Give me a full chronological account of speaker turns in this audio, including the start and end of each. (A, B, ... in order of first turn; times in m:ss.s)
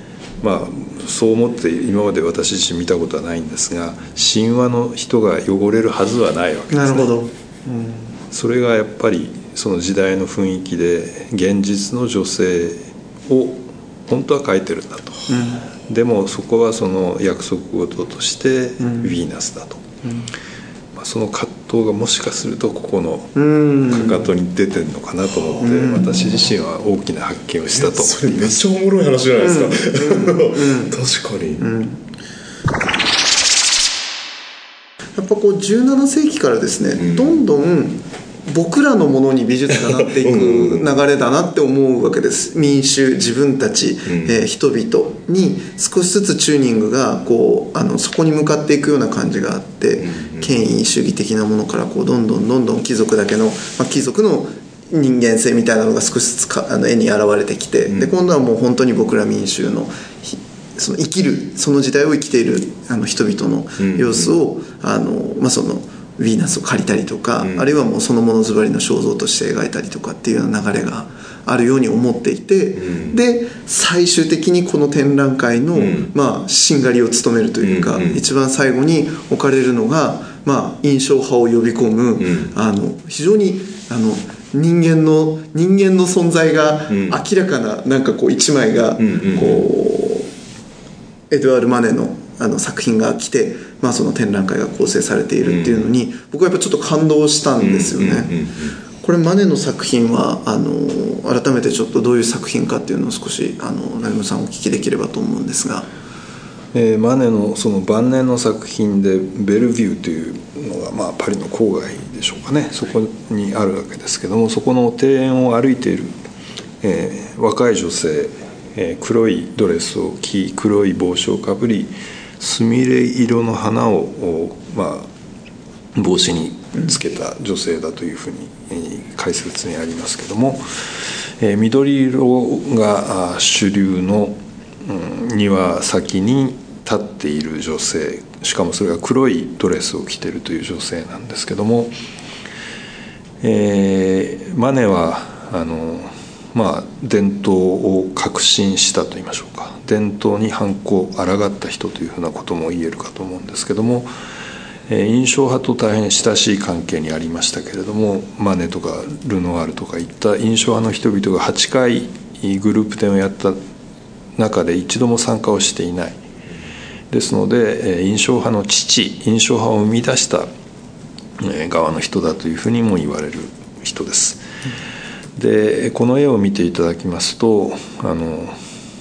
0:00.4-0:07.1 A
0:06.7-0:08.1 B
0:08.3-0:19.9 A
0:15.3-0:15.7 B
0:18.8-0:19.2 B
0:21.0-0:28.6 A
0:23.4-0:24.2 B
0:25.6-0:26.0 B
0:27.7-0:31.7 C
0:29.4-0:30.9 B
0:31.6-0:32.0 B
0:35.2-1:30.3 B
0:37.0-0:37.4 C
0:40.0-0:40.9 C
0:44.1-0:44.4 C
0:50.0-0:50.5 C
1:03.8-1:04.4 C
1:07.4-1:07.7 C
1:12.8-1:13.2 C
1:15.8-1:16.1 C
1:17.6-1:18.2 C
1:22.2-1:22.5 C
1:26.9-1:27.2 C
1:29.0-1:29.6 C
1:31.3-1:38.3 B
1:35.4-1:35.9 C
1:37.6-1:38.8 C
1:39.0-1:45.9 B
1:46.7-1:56.2 A
1:56.8-2:05.1 A
2:05.9-2:22.0 A
2:23.4-2:34.1 A
2:34.9-2:43.6 A
2:44.4-2:46.2 A
2:47.1-2:50.5 A
2:51.4-2:54.4 A
2:55.4-2:58.6 A